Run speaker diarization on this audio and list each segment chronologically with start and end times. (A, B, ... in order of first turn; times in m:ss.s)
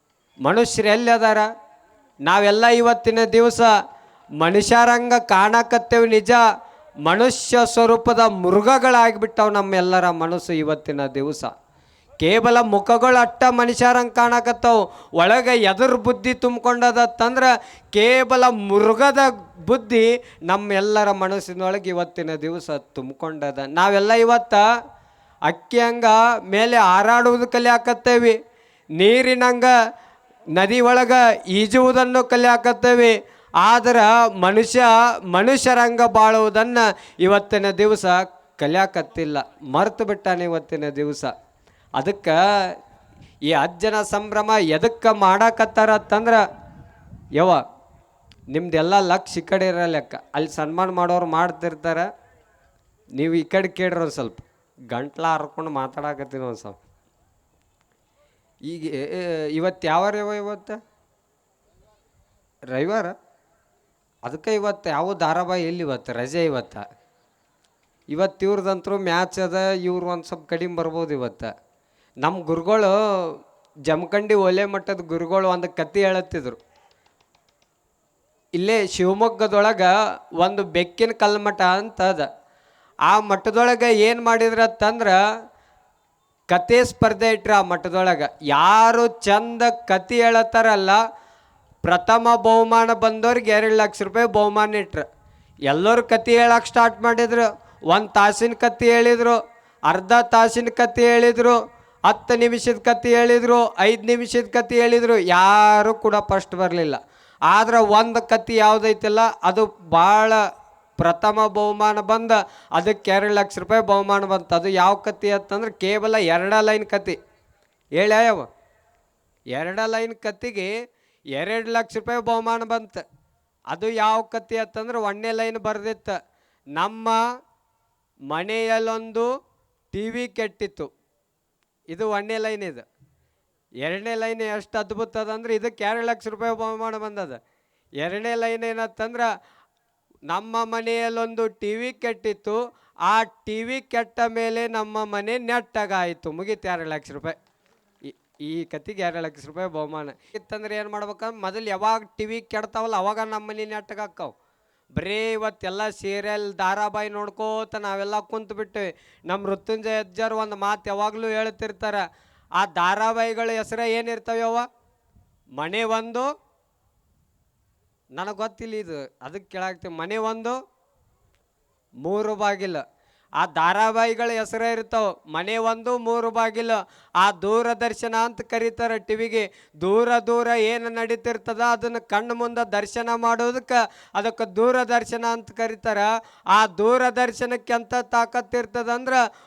0:00.4-0:01.5 A
0:02.2-0:03.7 A
0:04.4-0:06.4 A
0:07.0-0:11.5 A
0:12.2-0:24.6 A
0:25.5-0:28.4 A
0:29.0-0:29.7 A
0:30.5-0:41.3 A
0:42.0-0:42.7 A
0:43.5-0:46.4 A
0:48.5-0:52.1 A
0:53.2-0:56.8 A
0:58.6-1:00.8 A
1:02.7-1:03.1 A
1:04.2-1:06.8 A
1:08.1-1:11.5 A
1:12.2-1:16.6 A
1:18.6-1:22.3 A
1:23.0-1:25.2 A
1:26.5-1:31.0 A
1:31.8-1:35.0 A
1:35.7-1:50.4 A
1:51.0-1:57.2 A
1:58.0-1:58.5 A
1:59.5-2:00.7 A
2:01.3-2:03.0 A
2:03.7-2:06.2 A
2:06.7-2:07.2 A
2:08.3-2:09.3 A
2:09.9-2:10.9 A
2:11.9-2:12.8 A
2:13.8-2:17.4 A
2:18.0-2:19.3 A
2:20.3-2:27.4 A
2:28.0-2:34.3 A
2:35.0-2:42.0 A
2:42.6-2:44.6 A
2:45.6-2:46.3 A
2:48.1-2:50.6 A
2:52.0-2:52.8 A
2:53.4-3:09.2 A